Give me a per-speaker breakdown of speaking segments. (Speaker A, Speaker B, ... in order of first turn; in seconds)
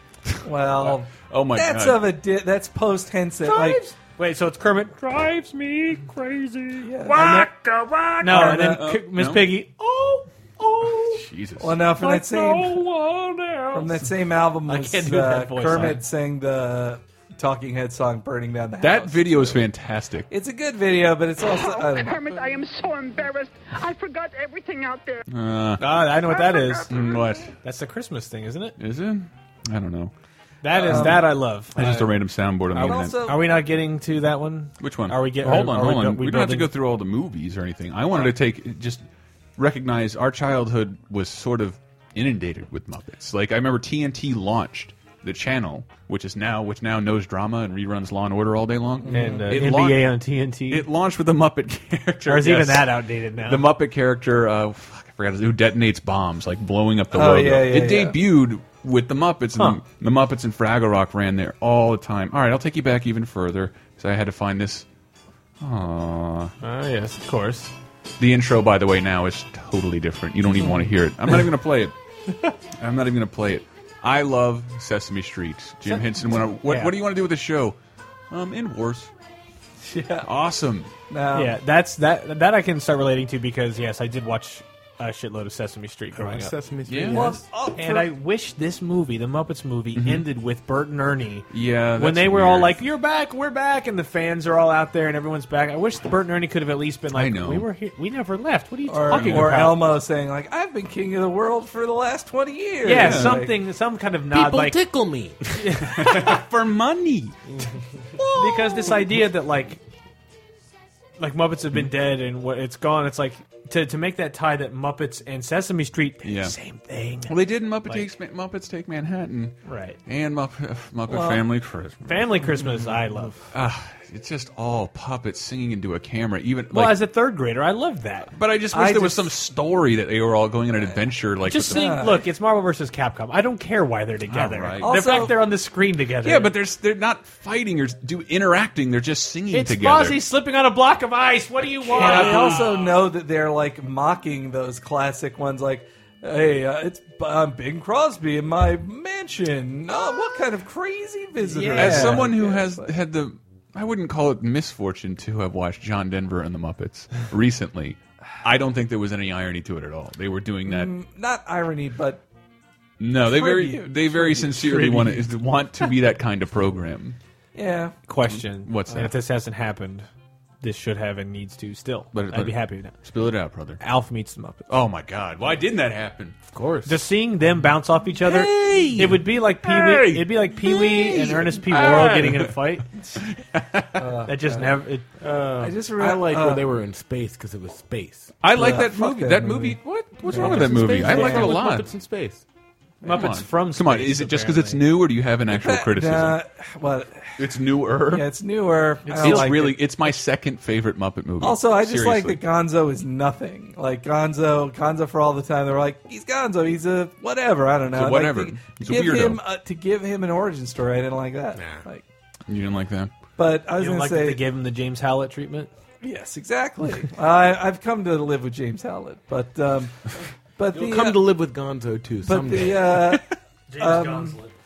Speaker A: 0.3-2.1, 8.4-9.5, 11.0-11.8, 18.8-20.3, 25.3-25.8, 26.9-27.5, 28.8-30.1, 30.9-31.2, 31.7-33.2, 34.8-39.0, 39.6-50.1, 50.7-64.8, 65.6-66.5, 68.2-71.9, 72.8-77.8, 78.3-79.1, 80.2-80.9, 86.9-87.3, 90.0-90.2, 91.5-92.8, 97.1-97.7, 99.1-99.6, 102.9-103.4, 105.8-107.3, 108.2-109.1, 116.2-116.5, 117.3-122.5, 123.5-127.0, 128.3-132.0, 134.3-135.3, 136.2-140.2, 141.9-142.6, 151.7-160.9, 163.0-167.2, 168.3-169.1, 172.1-173.8, 174.7-176.3, 178.2-182.5, 183.1-184.0, 188.4-191.9, 193.0-196.4, 197.4-198.2, 199.1-202.4, 207.9-209.4, 212.5-213.1
Speaker B: 0.4-3.8, 6.8-7.5, 8.2-8.8, 11.6-12.8, 13.7-19.6, 20.3-22.2, 30.7-31.3, 32.7-33.6, 49.0-49.6, 57.1-58.2, 79.8-80.3, 81.1-81.6, 87.1-88.1, 98.9-103.6, 121.1-121.4, 128.7-129.3, 131.7-132.2, 134.8-135.4, 141.9-152.9, 160.7-162.2, 163.2-164.9, 167.5-167.9, 183.9-184.8, 185.6-186.7, 188.5-189.8, 190.3-191.6, 195.5-197.4, 198.1-199.8, 201.4-212.0, 213.4-214.4, 216.0-220.0, 220.6-221.2, 222.2-223.3, 223.8-224.4
Speaker C: 3.4-11.2, 12.0-14.0, 14.7-16.0, 25.8-26.9, 27.6-28.8, 30.6-32.1, 32.7-36.7, 49.1-50.8, 52.3-53.6, 59.5-59.8, 66.6-67.7, 75.9-76.9, 81.3-86.5, 87.8-99.9, 102.8-104.8, 105.5-106.4, 108.3-109.8, 111.2-117.3, 119.6-120.0, 122.0-123.3, 126.7-128.3, 131.4-136.5, 139.5-142.7, 151.4-152.3, 164.6-165.3, 168.1-170.1, 170.6-172.9, 173.8-174.7, 176.8-182.9, 184.3-185.1, 193.0-194.8, 213.8-215.7, 223.7-224.5
Speaker D: 21.4-25.2, 26.2-27.4
Speaker E: 86.1-87.4, 104.3-105.6, 176.5-177.0, 185.2-188.3, 190.1-192.4, 199.1-199.5, 211.5-211.8, 220.7-223.1